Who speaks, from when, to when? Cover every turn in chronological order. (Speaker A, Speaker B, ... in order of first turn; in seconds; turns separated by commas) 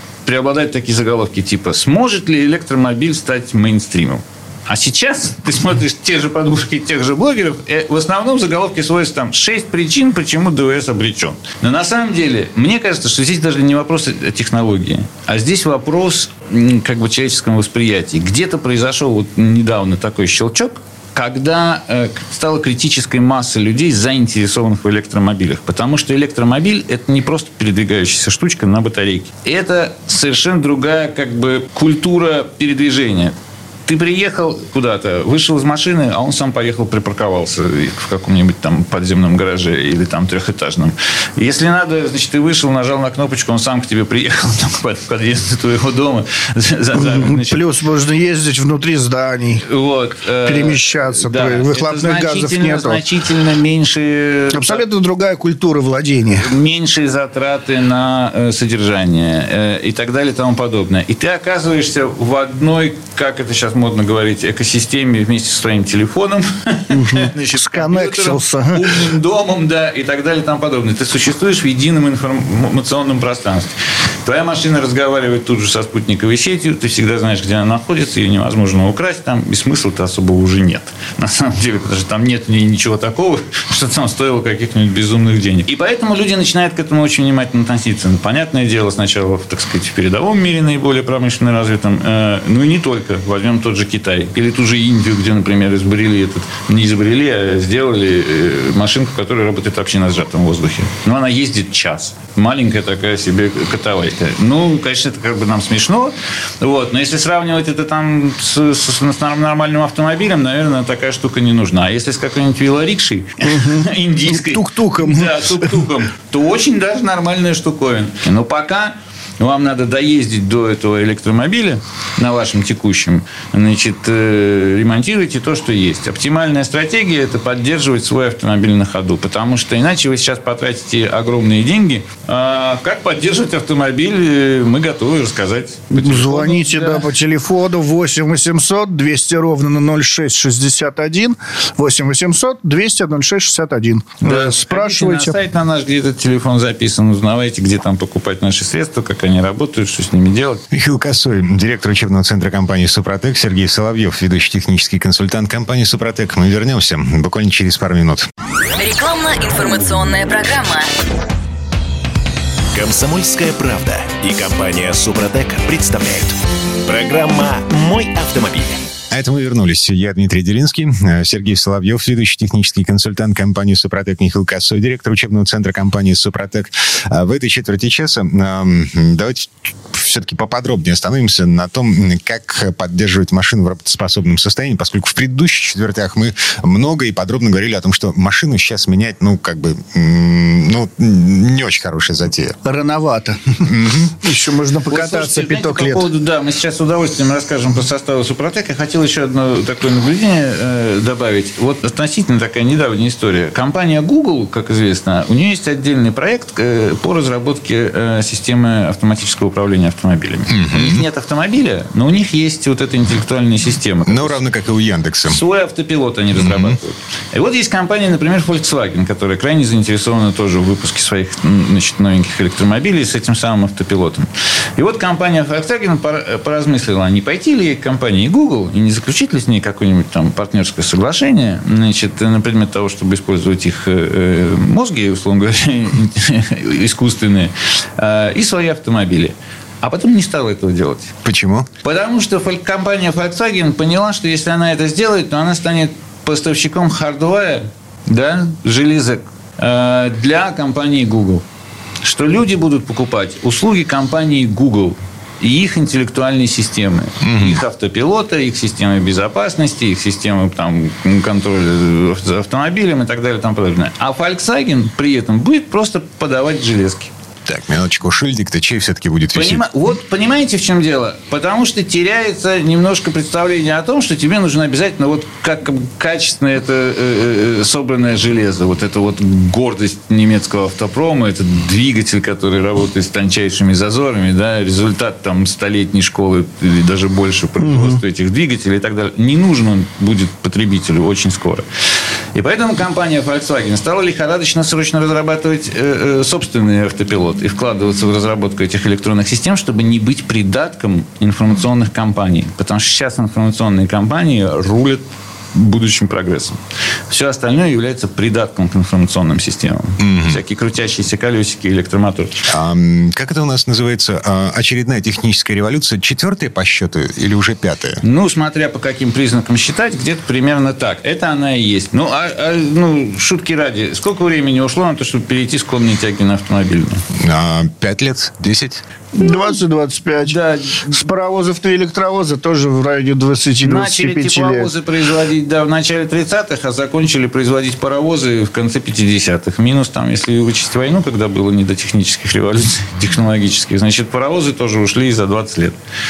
Speaker A: 0.2-33.3, Speaker A: 33.9-47.6, Speaker B: 47.0-49.6, Speaker A: 49.6-54.8, Speaker B: 50.5-53.0, Speaker B: 54.5-56.5, Speaker A: 56.4-73.7, Speaker B: 66.9-69.1, Speaker A: 74.2-137.1, Speaker B: 113.4-115.6, Speaker B: 135.9-145.4, Speaker A: 144.2-150.6, Speaker C: 150.7-158.3, Speaker D: 158.8-160.9, Speaker E: 162.7-168.9, Speaker C: 169.1-192.6, Speaker B: 192.6-196.1, Speaker C: 193.6-194.3, Speaker A: 194.9-214.4, Speaker C: 210.5-211.1, Speaker C: 214.1-215.4, Speaker A: 215.3-241.1, Speaker C: 216.4-216.8, Speaker C: 241.2-241.7, Speaker A: 241.8-251.4, Speaker A: 252.0-267.1, Speaker C: 257.2-257.6, Speaker C: 267.4-269.6, Speaker A: 269.3-291.6, Speaker B: 287.6-288.0, Speaker A: 292.3-305.0, Speaker A: 305.6-306.6, Speaker A: 307.1-312.5, Speaker C: 310.0-310.4, Speaker C: 312.5-318.0, Speaker A: 318.0-327.0, Speaker C: 327.1-328.8, Speaker B: 329.1-330.4, Speaker A: 330.2-331.0, Speaker B: 330.9-334.7, Speaker A: 333.6-345.8